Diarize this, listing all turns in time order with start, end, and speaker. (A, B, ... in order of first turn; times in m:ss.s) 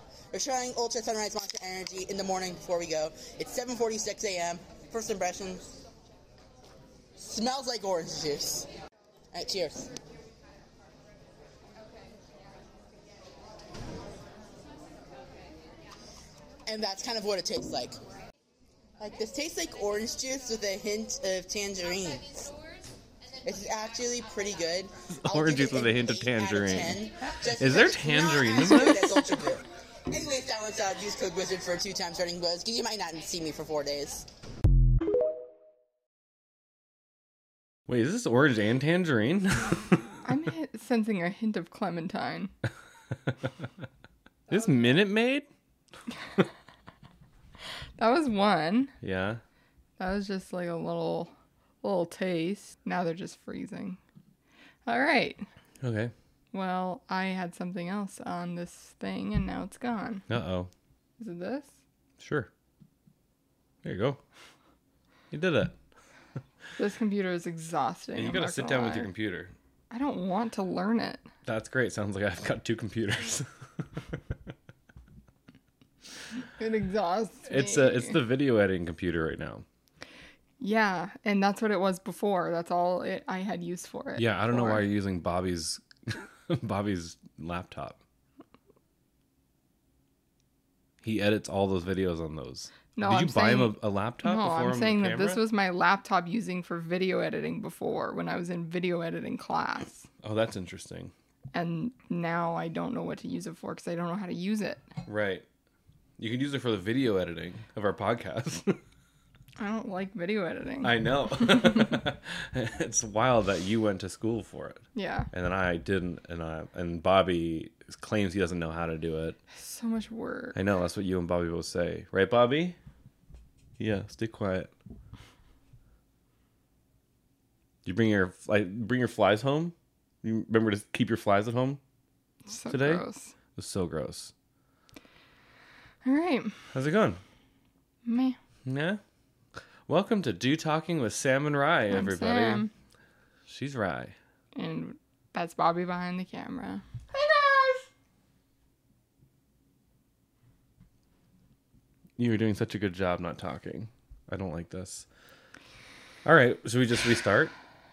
0:00.3-0:05.7 A
0:07.2-0:08.7 A
0:09.3-0:09.9 A
0:16.7-0:18.0 A
0:19.0-0:22.5 A
0:23.4-0:34.2 A
0:25.1-0:27.0 B
0:27.6-0:29.2 B
0:37.9-0:40.0 B
0:40.2-0:42.5 C
0:44.5-0:45.5 B
0:48.0-0:48.9 C
0:49.0-0:49.4 B
0:50.0-0:51.3 C
0:51.8-0:54.0 C
0:54.9-0:55.4 C
0:55.8-0:56.1 B
0:56.5-1:00.2 C
1:00.3-1:00.7 B
1:01.2-1:01.7 C
1:02.2-1:02.5 B
1:03.8-1:04.2 B
1:05.3-1:05.8 B
1:06.8-1:09.1 C
1:08.2-1:09.6 B
1:09.9-1:11.2 C
1:11.5-1:14.2 B
1:16.6-1:18.2 C
1:17.5-1:19.6 B
1:20.6-1:24.8 C
1:24.2-1:28.0 B
1:31.0-1:35.4 B
1:33.0-1:40.1 C
1:40.2-1:41.1 B
1:41.5-1:44.8 C
1:45.1-1:45.5 B
1:46.2-1:48.8 B
1:49.6-1:51.8 C
1:50.8-1:59.4 B
1:55.0-1:55.3 C
1:59.5-2:00.6 C
2:00.5-2:02.8 B
2:03.8-2:04.7 B
2:07.8-2:11.8 B
2:12.5-2:13.3 C
2:12.7-2:13.0 B
2:13.6-2:14.3 B
2:16.0-2:16.5 C
2:16.7-2:17.2 B
2:18.1-2:18.4 C
2:18.6-2:19.0 B
2:19.9-2:22.7 B
2:21.9-2:22.7 C
2:23.5-2:24.2 B
2:24.6-2:27.8 C
2:32.2-2:35.1 B
2:36.2-2:37.5 B